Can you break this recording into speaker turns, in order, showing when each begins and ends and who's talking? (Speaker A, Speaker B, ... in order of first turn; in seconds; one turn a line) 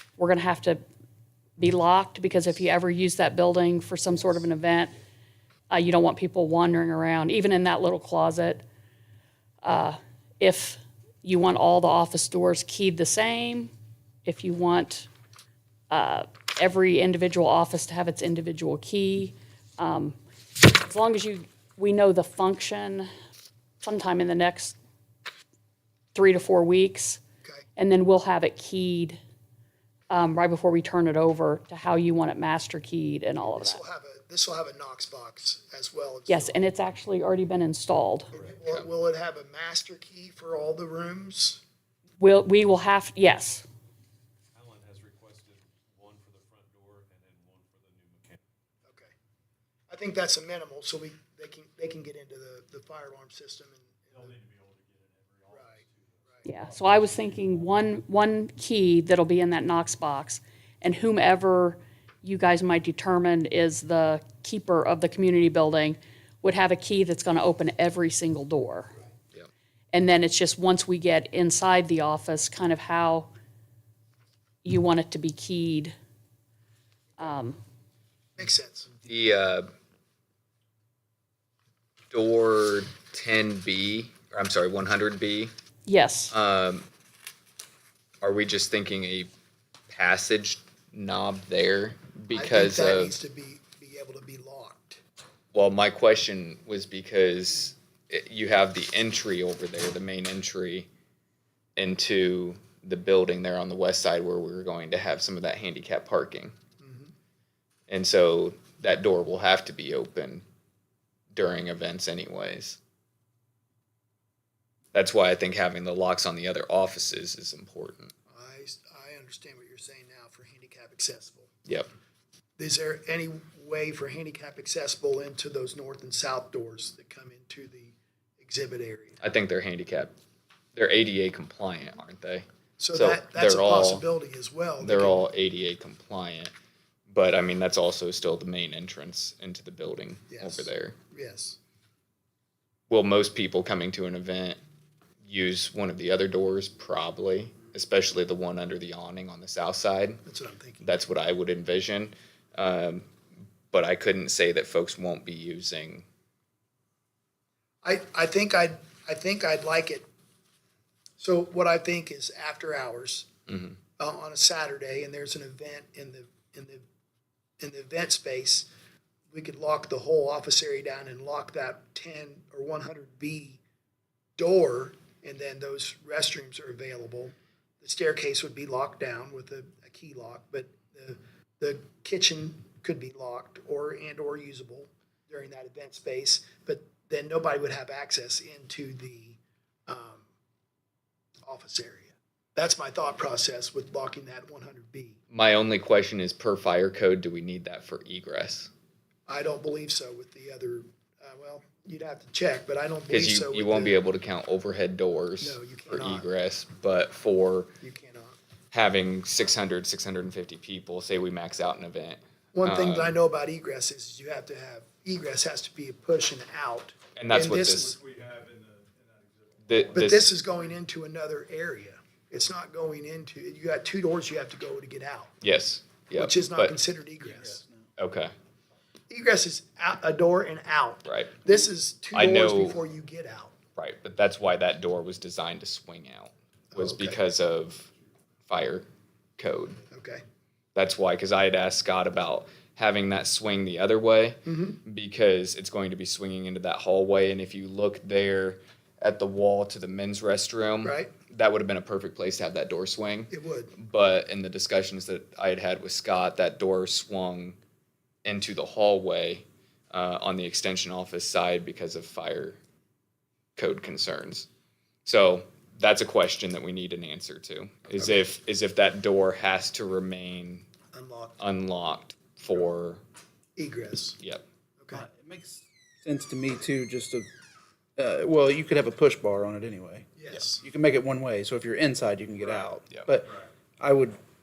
Speaker A: 0.2-0.8
Speaker A: 1.6-4.9
Speaker A: 5.7-8.6
Speaker A: 9.6-13.7
Speaker A: 14.2-15.1
Speaker A: 15.9-23.1
Speaker A: 23.8-24.8
Speaker A: 26.1-27.2
Speaker A: 27.8-29.2
Speaker A: 30.1-33.8
Speaker B: 33.4-36.6
Speaker A: 36.3-38.3
Speaker B: 38.3-41.6
Speaker A: 42.2-43.6
Speaker C: 44.5-48.4
Speaker B: 48.8-49.1
Speaker B: 49.9-54.3
Speaker C: 54.1-57.6
Speaker B: 55.5-56.4
Speaker A: 56.4-68.9
Speaker A: 69.9-73.3
Speaker A: 74.6-75.9
Speaker A: 77.2-77.6
Speaker B: 78.4-78.9
Speaker D: 79.0-79.7
Speaker D: 82.1-85.5
Speaker A: 85.8-86.3
Speaker D: 86.3-86.9
Speaker D: 88.2-89.3
Speaker D: 89.9-93.2
Speaker B: 92.3-95.0
Speaker D: 95.5-100.9
Speaker D: 101.8-106.5
Speaker B: 106.8-107.1
Speaker D: 107.9-110.4
Speaker D: 111.3-112.8
Speaker D: 114.9-118.1
Speaker B: 118.3-121.5
Speaker B: 122.6-129.2
Speaker D: 129.2-130.1
Speaker D: 130.8-134.1
Speaker B: 132.8-135.3
Speaker D: 134.8-136.5
Speaker D: 137.1-140.9
Speaker B: 140.3-141.6
Speaker D: 142.9-144.6
Speaker D: 145.2-150.2
Speaker B: 150.2-150.9
Speaker D: 150.8-153.1
Speaker D: 153.7-156.0
Speaker B: 157.8-160.1
Speaker B: 161.2-163.3
Speaker D: 163.5-163.8
Speaker B: 164.0-166.8
Speaker B: 167.6-168.7
Speaker B: 169.3-173.6
Speaker B: 174.4-190.2
Speaker B: 191.4-195.2
Speaker D: 195.3-198.7
Speaker B: 199.3-204.0
Speaker D: 203.1-207.7
Speaker B: 205.4-206.3
Speaker B: 207.8-208.4
Speaker D: 208.7-213.2
Speaker B: 212.5-217.9
Speaker D: 217.2-217.9
Speaker C: 217.7-220.7
Speaker D: 219.7-220.2
Speaker B: 219.9-225.3
Speaker D: 225.4-226.8
Speaker B: 226.1-227.6
Speaker C: 227.3-227.7
Speaker D: 228.0-228.3
Speaker B: 229.1-233.5
Speaker D: 231.0-231.4
Speaker D: 232.1-232.8
Speaker D: 233.8-237.9
Speaker B: 236.7-237.2
Speaker D: 238.4-238.9
Speaker D: 239.4-239.8
Speaker B: 239.9-240.2
Speaker D: 240.8-257.6
Speaker B: 244.4-244.8
Speaker B: 250.8-251.1
Speaker B: 253.3-253.7
Speaker D: 258.2-262.6
Speaker D: 263.6-264.5
Speaker D: 265.1-270.7
Speaker B: 268.0-268.2
Speaker B: 270.9-271.4
Speaker D: 271.4-273.0
Speaker B: 273.6-274.2
Speaker B: 274.8-275.1
Speaker E: 274.9-277.3
Speaker E: 278.0-284.2
Speaker B: 280.2-280.6